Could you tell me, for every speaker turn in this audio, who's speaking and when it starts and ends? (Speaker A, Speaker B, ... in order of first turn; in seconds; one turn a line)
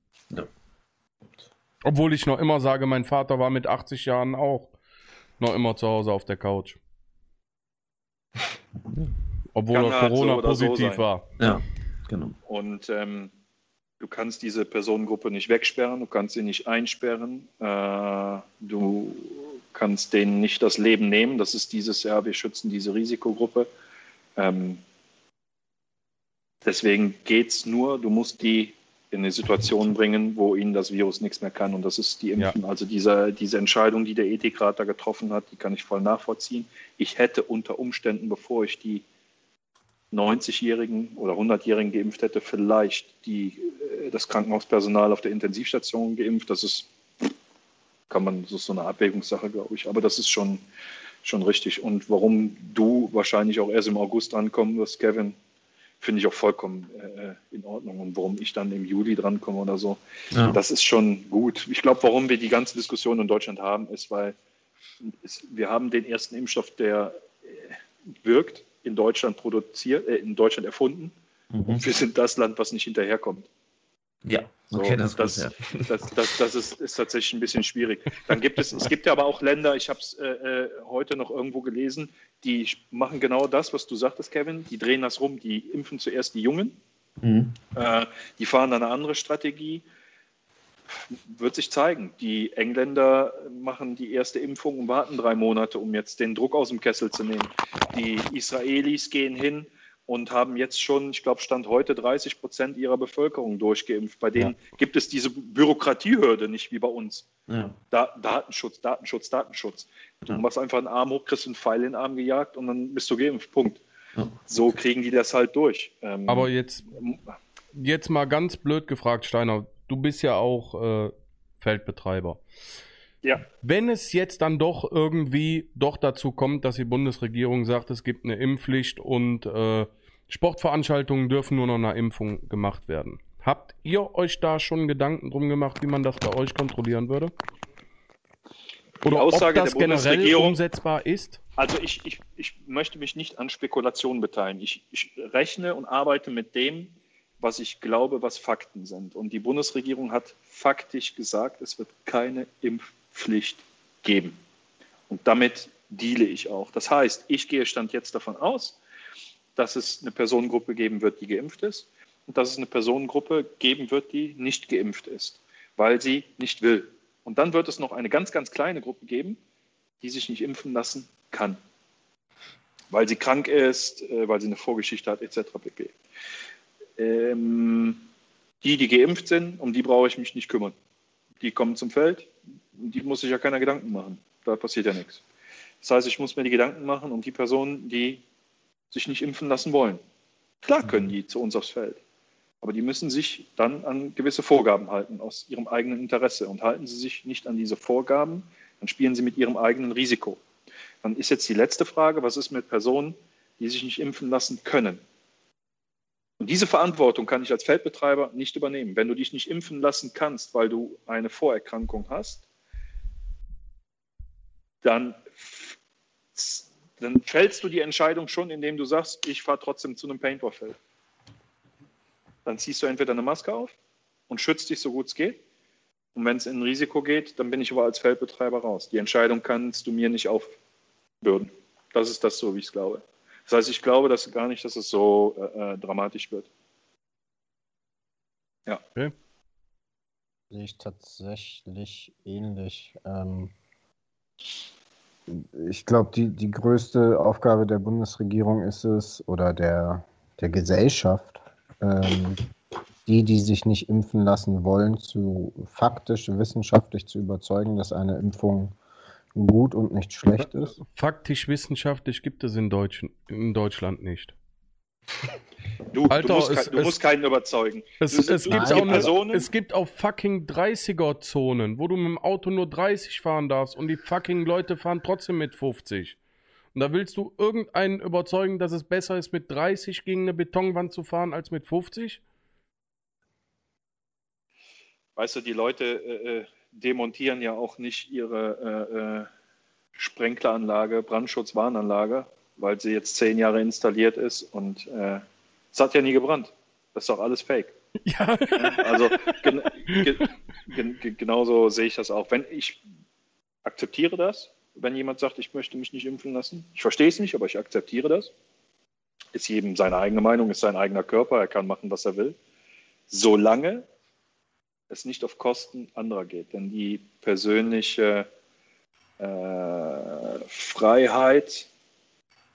Speaker A: 1.8-4.7
Speaker A: 5.4-6.8
Speaker A: 9.5-11.3
Speaker B: 9.7-11.0
Speaker C: 11.4-12.3
Speaker B: 12.5-13.3
Speaker B: 14.0-23.7
Speaker B: 24.4-24.8
Speaker B: 26.6-39.0
Speaker B: 40.1-46.9
Speaker B: 48.1-50.6
Speaker B: 51.2-55.4
Speaker B: 56.0-64.3
Speaker C: 60.3-60.6
Speaker B: 65.0-71.1
Speaker C: 71.5-71.8
Speaker B: 71.7-73.5
Speaker C: 74.2-75.9
Speaker B: 74.7-86.8
Speaker C: 87.2-87.6
Speaker B: 87.8-89.8
Speaker B: 91.1-107.2
Speaker C: 107.5-107.8
Speaker B: 107.9-113.8
Speaker B: 114.5-116.5
Speaker A: 116.3-116.9
Speaker A: 117.7-122.4
Speaker A: 123.6-137.3
Speaker A: 139.0-141.4
Speaker B: 139.1-140.6
Speaker B: 141.6-154.4
Speaker B: 155.1-158.8
Speaker B: 159.6-169.4
Speaker B: 170.0-171.6
Speaker B: 172.9-175.9
Speaker B: 177.0-178.0
Speaker B: 178.6-180.7
Speaker B: 181.4-185.2
Speaker B: 185.8-188.2
Speaker B: 188.9-190.0
Speaker B: 190.6-192.0
Speaker B: 192.6-200.4
Speaker B: 201.0-205.0
Speaker B: 206.4-212.4
Speaker B: 214.8-215.8
Speaker B: 216.3-220.8
Speaker B: 222.4-223.7
Speaker B: 224.3-225.4
Speaker B: 226.1-230.5
Speaker B: 231.2-236.5
Speaker D: 240.5-243.5
Speaker D: 245.3-252.4
Speaker D: 253.1-258.7
Speaker D: 259.3-260.8
Speaker A: 260.8-264.3
Speaker B: 265.9-269.5
Speaker A: 266.1-267.0
Speaker A: 268.0-276.2
Speaker D: 268.5-269.1
Speaker A: 276.7-282.2
Speaker B: 285.1-289.3
Speaker B: 289.9-297.7
Speaker A: 298.1-299.3
Speaker B: 298.6-302.8
Speaker B: 303.6-308.3
Speaker B: 309.3-312.4
Speaker B: 313.1-313.9
Speaker B: 314.9-318.3
Speaker B: 319.2-321.7